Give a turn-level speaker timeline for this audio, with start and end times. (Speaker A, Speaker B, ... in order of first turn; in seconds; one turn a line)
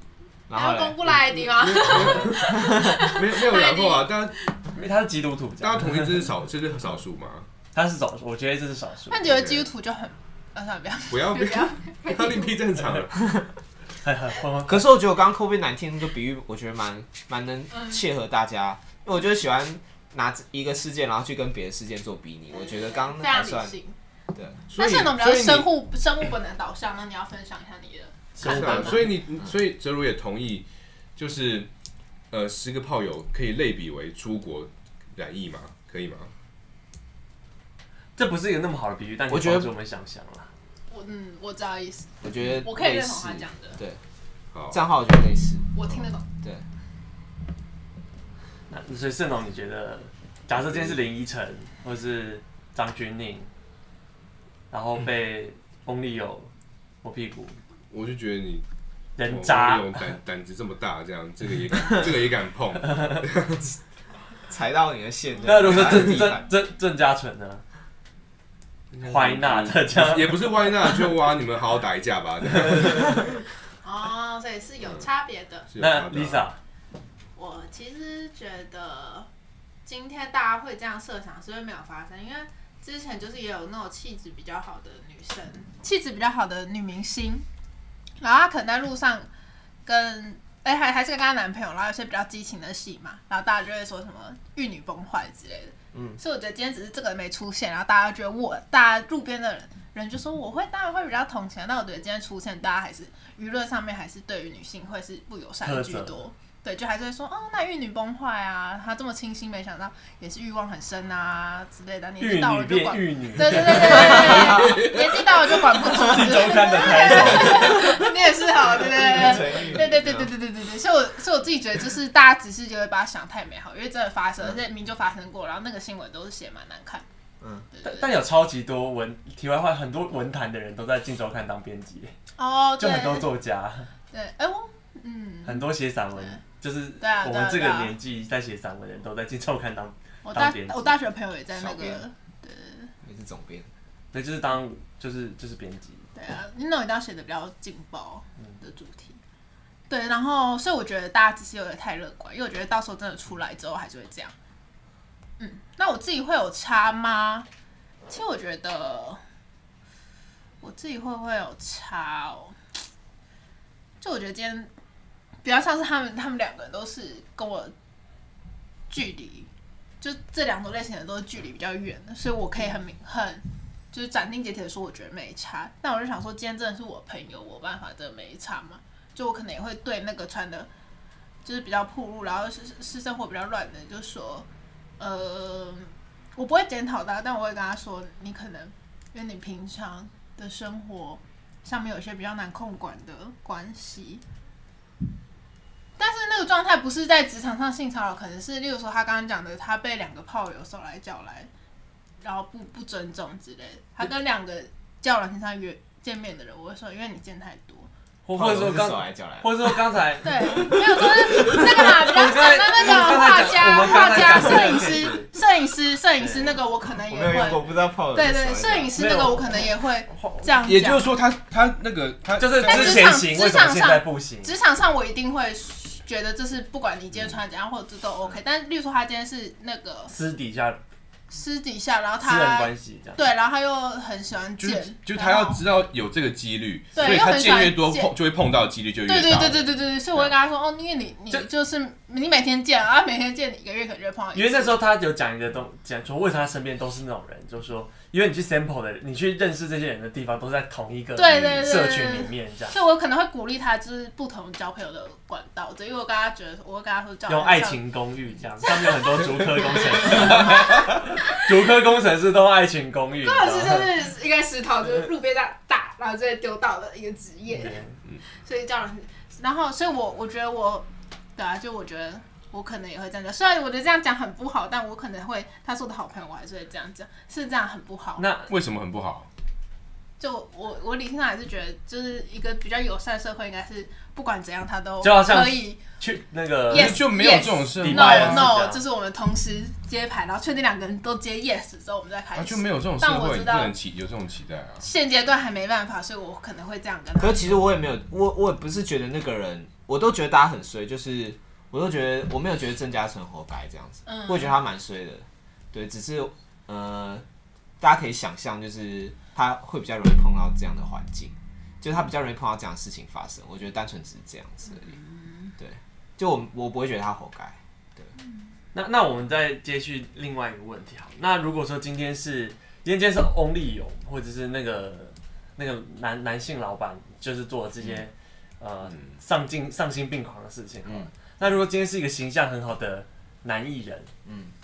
Speaker A: 0.5-1.0
Speaker B: 0.5-4.5
Speaker C: 1.3-4.4
Speaker A: 2.1-3.0
Speaker D: 4.7-6.3
Speaker C: 5.6-7.5
Speaker D: 7.7-9.3
Speaker B: 9.1-12.6
Speaker C: 9.2-9.7
Speaker C: 11.1-13.4
Speaker D: 14.0-14.9
Speaker A: 14.7-23.8
Speaker B: 17.7-18.0
Speaker B: 22.6-23.9
Speaker A: 24.3-25.7
Speaker B: 24.7-29.1
Speaker D: 28.4-29.1
Speaker C: 28.4-31.7
Speaker C: 32.3-36.3
Speaker D: 38.2-40.5
Speaker A: 39.3-39.7
Speaker B: 40.9-43.8
Speaker A: 42.2-44.0
Speaker C: 44.5-44.8
Speaker A: 44.7-46.6
Speaker B: 45.7-46.3
Speaker D: 48.7-53.5
Speaker C: 50.5-51.0
Speaker D: 54.7-56.5
Speaker D: 57.0-57.5
Speaker C: 57.9-58.6
Speaker D: 59.2-60.0
Speaker C: 59.2-63.8
Speaker A: 64.5-66.5
Speaker D: 65.5-67.6
Speaker C: 68.9-73.4
Speaker D: 69.0-71.0
Speaker D: 72.6-73.2
Speaker B: 73.8-75.7
Speaker C: 75.7-76.5
Speaker D: 75.8-76.6
Speaker B: 77.4-79.3
Speaker B: 79.8-87.5
Speaker B: 88.2-89.3
Speaker B: 89.9-127.0
Speaker A: 95.9-96.2
Speaker D: 105.6-106.2
Speaker D: 112.2-114.9
Speaker A: 113.9-114.9
Speaker C: 114.7-115.0
Speaker D: 115.9-117.9
Speaker A: 117.1-117.9
Speaker A: 118.6-120.3
Speaker A: 127.4-127.7
Speaker B: 127.7-128.1
Speaker D: 127.8-132.1
Speaker B: 132.4-133.3
Speaker D: 132.8-133.9
Speaker B: 134.1-136.4
Speaker D: 135.4-140.9
Speaker B: 137.0-137.9
Speaker B: 140.2-142.9
Speaker A: 141.6-142.0
Speaker A: 143.0-143.7
Speaker D: 144.1-146.1
Speaker B: 146.2-149.2
Speaker B: 149.9-154.3
Speaker B: 155.4-157.4
Speaker B: 158.1-159.2
Speaker B: 160.6-162.6
Speaker B: 164.0-164.7
Speaker B: 165.4-167.7
Speaker B: 168.9-169.5
Speaker B: 170.0-180.7
Speaker B: 181.4-184.5
Speaker B: 185.0-194.2
Speaker B: 196.0-201.5
Speaker B: 202.2-207.9
Speaker D: 208.2-210.7
Speaker A: 208.3-209.8
Speaker B: 210.2-217.6
Speaker A: 210.6-212.1
Speaker D: 211.4-215.3
Speaker D: 216.2-216.6
Speaker A: 217.1-219.0
Speaker B: 218.1-221.1
Speaker D: 218.9-220.4
Speaker C: 220.6-223.2
Speaker D: 222.4-224.5
Speaker B: 222.6-230.1
Speaker D: 230.1-230.8
Speaker B: 231.3-235.6
Speaker D: 232.2-233.2
Speaker C: 234.6-240.3
Speaker B: 236.9-238.1
Speaker B: 239.1-244.8
Speaker D: 244.3-252.7
Speaker B: 251.2-257.8
Speaker C: 251.4-251.7
Speaker D: 257.3-263.9
Speaker B: 258.6-261.3
Speaker C: 260.1-260.6
Speaker B: 263.2-267.8
Speaker D: 267.5-268.0
Speaker B: 268.3-278.3
Speaker D: 278.2-278.5
Speaker C: 278.5-279.3
Speaker B: 280.2-285.8
Speaker D: 285.0-288.8
Speaker B: 286.7-293.7
Speaker C: 286.7-288.5
Speaker C: 292.3-294.9
Speaker B: 294.8-297.4
Speaker A: 297.2-307.2
Speaker B: 304.1-304.6
Speaker A: 307.8-314.9
Speaker B: 314.8-315.5
Speaker A: 315.6-318.1
Speaker D: 318.7-334.1
Speaker A: 330.8-331.1
Speaker A: 334.2-334.5